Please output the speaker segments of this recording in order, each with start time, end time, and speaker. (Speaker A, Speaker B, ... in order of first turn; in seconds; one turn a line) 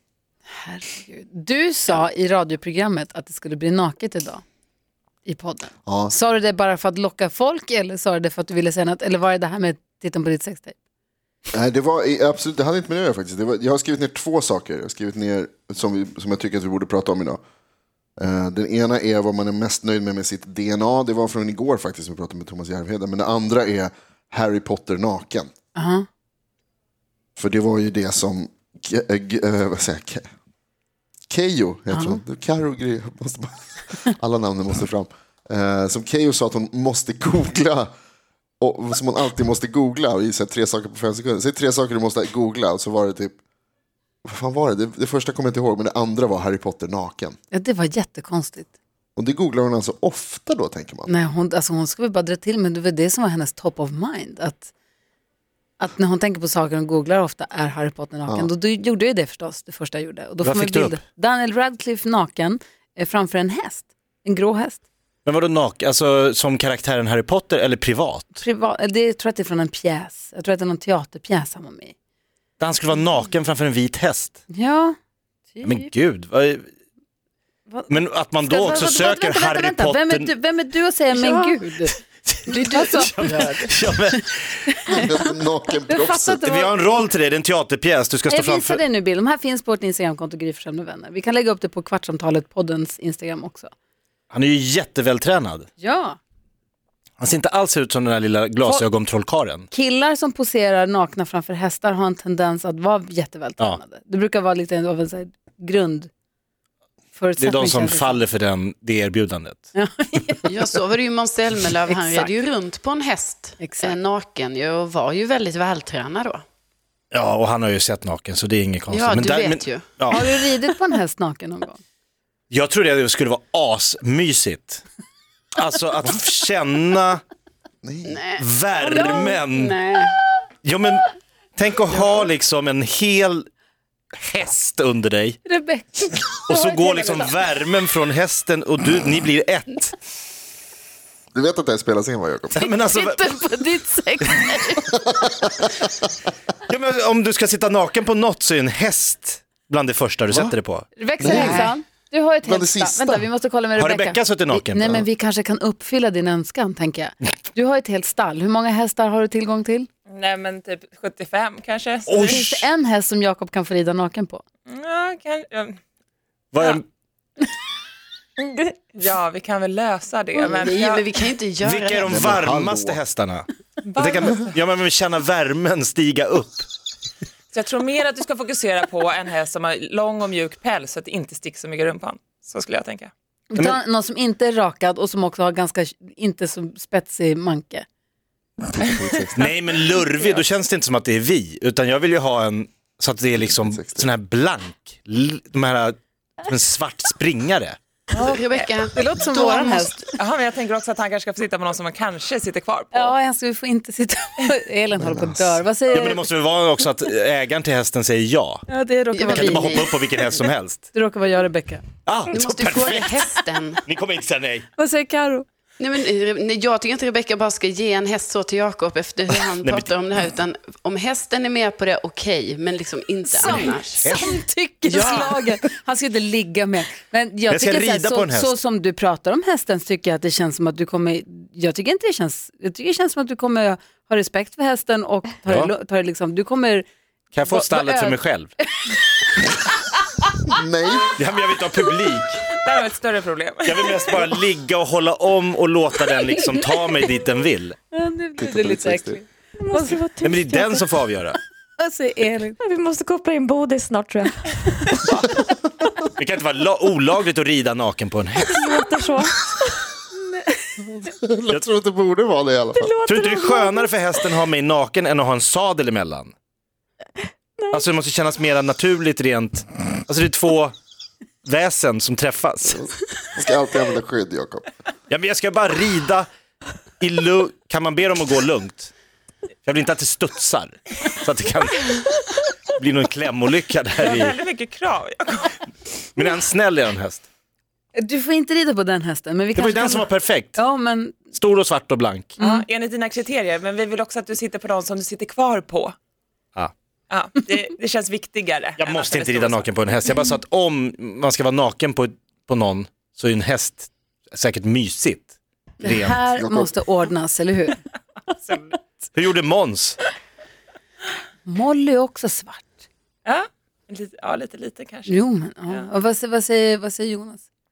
Speaker A: 0.5-4.4
Speaker A: 5.2-10.8
Speaker B: 5.9-6.1
Speaker B: 11.5-17.4
Speaker B: 18.2-25.5
Speaker A: 25.8-26.1
Speaker B: 27.4-30.2
Speaker B: 31.3-37.9
Speaker A: 31.9-32.2
Speaker B: 38.6-43.4
Speaker B: 44.2-47.4
Speaker A: 47.5-48.7
Speaker B: 49.2-51.1
Speaker A: 51.1-54.7
Speaker A: 55.8-64.8
Speaker C: 60.4-61.0
Speaker C: 65.3-68.4
Speaker A: 68.4-71.9
Speaker C: 72.6-74.4
Speaker A: 74.5-75.0
Speaker A: 75.5-75.9
Speaker C: 75.6-76.7
Speaker A: 77.7-82.0
Speaker C: 77.9-80.3
Speaker D: 81.1-81.6
Speaker C: 82.3-84.6
Speaker D: 82.5-83.8
Speaker A: 82.7-83.1
Speaker B: 84.9-86.4
Speaker A: 85.9-86.7
Speaker C: 86.3-88.8
Speaker A: 88.3-93.7
Speaker C: 94.3-95.7
Speaker A: 95.8-96.2
Speaker C: 97.2-99.7
Speaker A: 99.7-106.1
Speaker A: 107.2-108.2
Speaker C: 107.4-109.7
Speaker A: 109.8-110.5
Speaker D: 110.5-116.4
Speaker A: 111.9-112.3
Speaker A: 113.6-114.0
Speaker C: 117.1-120.2
Speaker D: 118.9-120.0
Speaker A: 120.1-121.8
Speaker C: 122.5-124.8
Speaker C: 125.5-127.2
Speaker B: 127.8-128.2
Speaker D: 128.1-130.1
Speaker C: 128.4-129.8
Speaker A: 129.1-129.3
Speaker C: 130.6-131.1
Speaker C: 131.6-133.5
Speaker C: 134.2-135.4
Speaker A: 135.4-137.4
Speaker C: 136.5-140.0
Speaker B: 141.3-142.7
Speaker C: 142.6-143.4
Speaker A: 142.8-145.0
Speaker B: 145.2-145.7
Speaker C: 146.7-150.9
Speaker B: 150.3-150.6
Speaker A: 151.0-159.9
Speaker B: 151.2-151.7
Speaker E: 151.2-151.7
Speaker B: 152.4-153.3
Speaker C: 153.8-155.0
Speaker E: 160.1-162.4
Speaker C: 162.1-162.7
Speaker A: 162.2-164.4
Speaker E: 164.7-165.8
Speaker C: 166.5-166.8
Speaker E: 168.5-171.1
Speaker D: 170.3-172.2
Speaker C: 171.6-176.7
Speaker B: 172.1-173.0
Speaker E: 173.8-174.6
Speaker E: 177.5-183.1
Speaker A: 183.5-187.8
Speaker B: 188.7-189.4
Speaker C: 189.4-197.8
Speaker B: 193.4-194.1
Speaker E: 198.1-198.6
Speaker D: 198.2-200.0
Speaker A: 198.9-200.1
Speaker E: 200.2-203.1
Speaker A: 202.9-206.3
Speaker B: 205.0-205.6
Speaker C: 205.9-208.7
Speaker A: 208.7-209.9
Speaker D: 209.1-209.9
Speaker C: 209.3-210.9
Speaker A: 210.9-211.8
Speaker C: 212.1-213.3
Speaker D: 212.3-213.8
Speaker C: 213.9-214.7
Speaker A: 214.8-215.4
Speaker D: 215.8-224.1
Speaker C: 219.5-220.0
Speaker A: 223.3-236.9
Speaker C: 223.6-224.4
Speaker C: 227.5-228.6
Speaker C: 237.3-238.5
Speaker A: 237.4-238.2
Speaker B: 240.5-241.1
Speaker C: 241.2-242.5
Speaker E: 242.5-244.2
Speaker C: 243.7-247.8
Speaker A: 247.9-250.0
Speaker B: 248.4-249.2
Speaker F: 249.6-250.9
Speaker C: 250.2-251.4
Speaker A: 251.8-252.6
Speaker F: 252.6-255.0
Speaker C: 255.1-255.4
Speaker C: 256.2-258.6
Speaker F: 258.5-259.6
Speaker B: 260.9-262.9
Speaker F: 262.8-263.9
Speaker C: 263.1-266.3
Speaker C: 267.7-270.8
Speaker C: 271.4-272.8
Speaker B: 272.7-274.7
Speaker C: 275.1-276.3
Speaker C: 277.0-278.9
Speaker C: 279.6-282.2
Speaker C: 282.8-284.4
Speaker E: 284.0-285.6
Speaker C: 286.2-287.3
Speaker A: 287.9-291.2
Speaker C: 289.6-290.6
Speaker C: 291.3-292.4
Speaker A: 292.4-292.6
Speaker E: 292.4-295.9
Speaker E: 297.1-299.7
Speaker C: 298.8-306.3
Speaker A: 305.8-307.8
Speaker B: 306.4-306.7
Speaker E: 308.4-308.8
Speaker C: 309.1-310.0
Speaker A: 311.5-312.8
Speaker E: 313.3-315.8
Speaker A: 315.1-317.4